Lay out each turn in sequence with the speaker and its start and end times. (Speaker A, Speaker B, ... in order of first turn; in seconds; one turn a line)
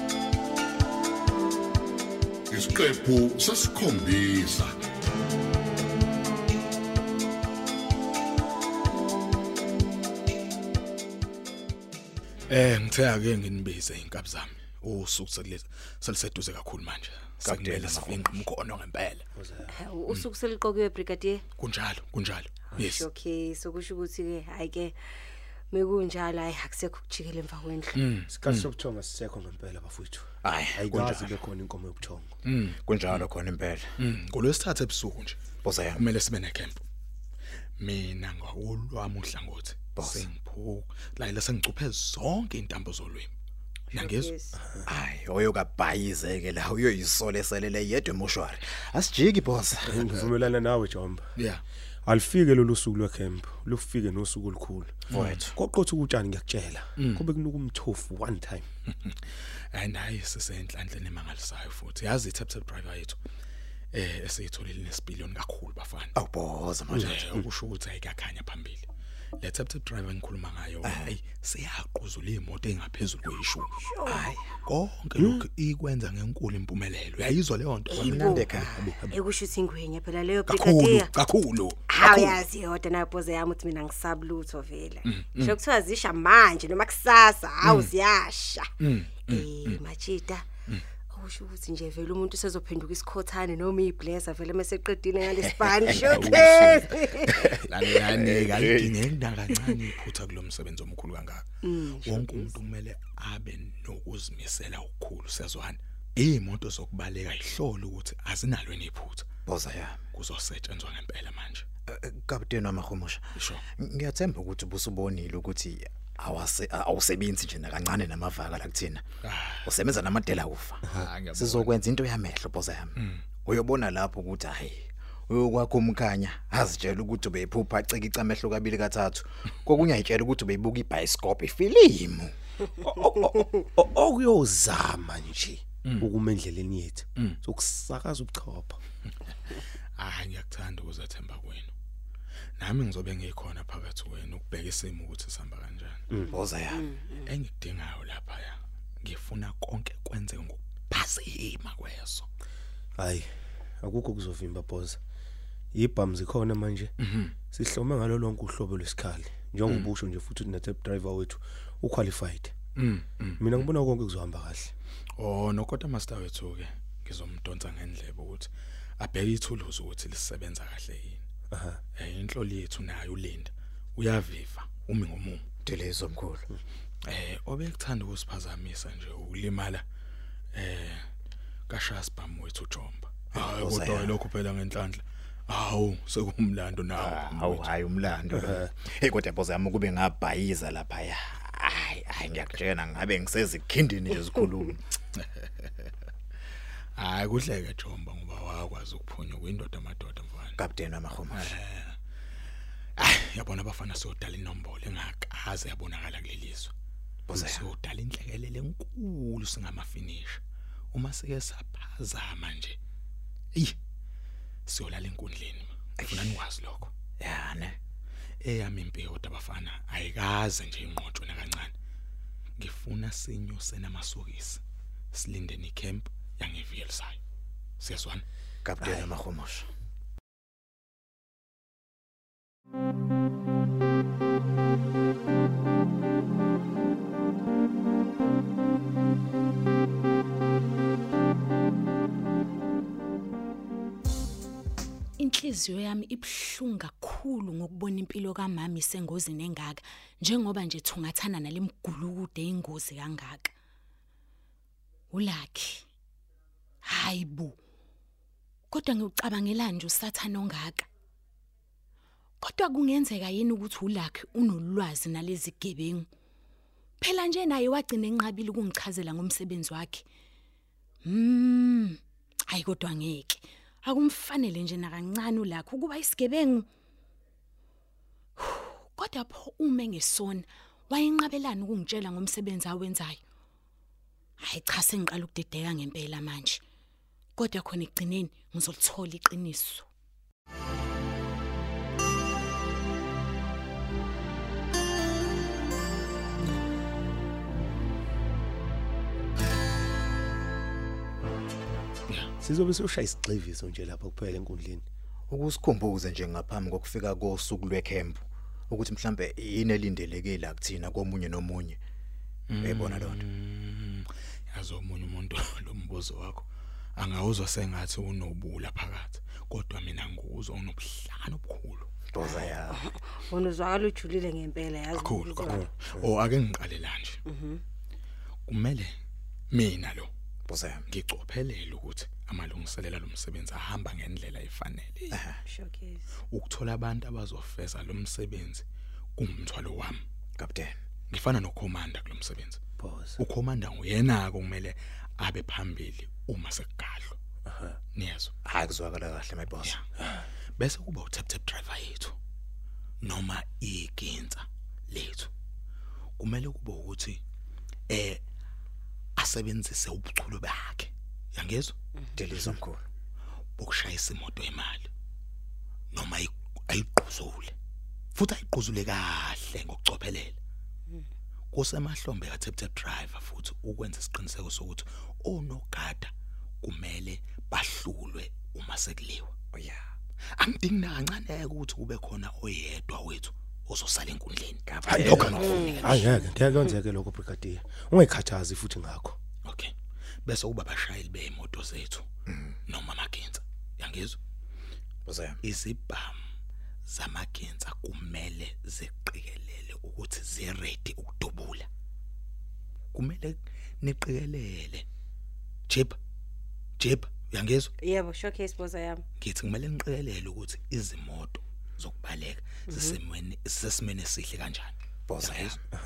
Speaker A: 2.5-4.8
Speaker B: 12.5-19.2
Speaker C: 17.4-18.5
Speaker D: 19.4-19.8
Speaker E: 19.8-21.4
Speaker B: 21.6-23.1
Speaker E: 22.7-24.9
Speaker E: 25.7-27.9
Speaker B: 27.9-28.7
Speaker D: 28.3-32.4
Speaker C: 30.4-31.4
Speaker B: 32.4-33.2
Speaker C: 32.8-33.9
Speaker B: 34.0-35.4
Speaker C: 35.6-36.1
Speaker B: 36.0-36.8
Speaker B: 37.8-43.3
Speaker C: 40.0-40.2
Speaker B: 43.9-44.3
Speaker E: 44.0-44.5
Speaker C: 44.8-50.1
Speaker D: 49.9-51.2
Speaker B: 51.4-51.6
Speaker D: 52.0-55.0
Speaker B: 55.1-55.5
Speaker C: 55.1-55.5
Speaker D: 55.5-58.7
Speaker B: 57.0-57.3
Speaker B: 59.7-63.2
Speaker B: 63.9-66.2
Speaker C: 66.2-67.2
Speaker B: 66.9-68.9
Speaker D: 66.9-67.2
Speaker B: 69.4-73.7
Speaker C: 70.8-71.1
Speaker C: 74.0-74.5
Speaker B: 74.6-79.2
Speaker D: 75.2-75.4
Speaker C: 77.9-79.0
Speaker E: 78.0-81.1
Speaker B: 80.5-82.4
Speaker E: 82.0-88.7
Speaker B: 85.0-85.6
Speaker B: 87.6-87.9
Speaker B: 88.8-89.8
Speaker E: 89.3-90.5
Speaker E: 91.1-97.1
Speaker C: 95.4-99.1
Speaker B: 96.0-96.8
Speaker D: 96.1-96.9
Speaker B: 97.4-109.3
Speaker E: 101.7-102.2
Speaker C: 109.5-110.0
Speaker B: 110.1-111.7
Speaker C: 111.9-119.0
Speaker B: 113.4-113.6
Speaker B: 119.2-119.7
Speaker C: 119.6-132.3
Speaker B: 120.8-121.8
Speaker B: 123.0-123.2
Speaker D: 132.8-138.8
Speaker B: 140.0-141.7
Speaker B: 142.6-146.1
Speaker C: 146.3-146.9
Speaker B: 147.2-152.3
Speaker D: 153.0-155.0
Speaker D: 155.7-156.9
Speaker B: 157.0-157.3
Speaker D: 157.5-162.5
Speaker B: 159.7-159.9
Speaker B: 162.8-163.7
Speaker D: 163.4-164.7
Speaker B: 165.2-171.2
Speaker D: 171.5-171.8
Speaker B: 171.9-175.4
Speaker C: 175.6-176.5
Speaker B: 177.1-179.8
Speaker B: 180.5-181.0
Speaker B: 181.7-187.7
Speaker C: 183.3-184.2
Speaker C: 186.9-194.8
Speaker B: 195.2-195.9
Speaker B: 197.0-200.6
Speaker C: 200.6-201.5
Speaker B: 201.3-202.0
Speaker B: 203.0-206.7
Speaker C: 207.3-207.6
Speaker B: 207.3-210.4
Speaker B: 210.9-212.8
Speaker B: 214.7-216.9
Speaker C: 216.0-216.3
Speaker C: 217.2-217.8
Speaker B: 218.4-221.7
Speaker B: 222.6-224.6
Speaker B: 225.1-227.2
Speaker B: 227.8-228.2
Speaker C: 228.6-229.7
Speaker F: 245.2-253.5
Speaker F: 255.1-255.8
Speaker F: 256.9-257.6
Speaker F: 258.7-260.9
Speaker F: 262.4-266.1
Speaker F: 267.0-270.0
Speaker F: 271.0-276.7
Speaker F: 278.4-283.2
Speaker F: 284.4-286.6
Speaker F: 287.4-289.9
Speaker D: 302.4-304.9
Speaker C: 305.3-311.8
Speaker B: 312.5-322.0
Speaker C: 312.6-313.2
Speaker C: 322.1-322.8
Speaker E: 322.7-325.6
Speaker B: 324.9-327.2
Speaker E: 327.3-327.6
Speaker B: 328.5-328.9
Speaker B: 329.5-330.1
Speaker C: 330.5-330.8
Speaker B: 330.9-335.2
Speaker C: 335.1-335.4
Speaker E: 335.5-336.0
Speaker B: 336.3-338.6
Speaker B: 339.1-340.0
Speaker C: 340.4-340.7
Speaker B: 341.1-342.6
Speaker D: 342.8-343.2
Speaker B: 343.2-347.2
Speaker D: 347.5-347.8
Speaker B: 347.9-348.3
Speaker C: 348.4-349.8
Speaker B: 350.6-352.1
Speaker B: 353.0-355.3
Speaker B: 356.2-357.2
Speaker B: 357.9-358.2
Speaker B: 359.2-361.7
Speaker C: 362.1-362.8
Speaker B: 363.6-364.9
Speaker B: 365.9-367.5
Speaker B: 368.1-370.4
Speaker B: 371.5-379.3
Speaker C: 379.5-379.8
Speaker B: 380.4-385.7
Speaker C: 384.7-386.0
Speaker D: 384.9-389.2
Speaker B: 389.4-389.7
Speaker B: 390.2-392.1
Speaker C: 392.3-392.6
Speaker B: 392.7-394.2
Speaker C: 395.1-395.4
Speaker B: 395.4-396.2
Speaker B: 396.9-401.7
Speaker B: 402.9-404.9
Speaker B: 405.7-405.9
Speaker B: 406.8-407.7
Speaker E: 407.8-409.0
Speaker B: 409.2-415.6
Speaker C: 415.1-415.6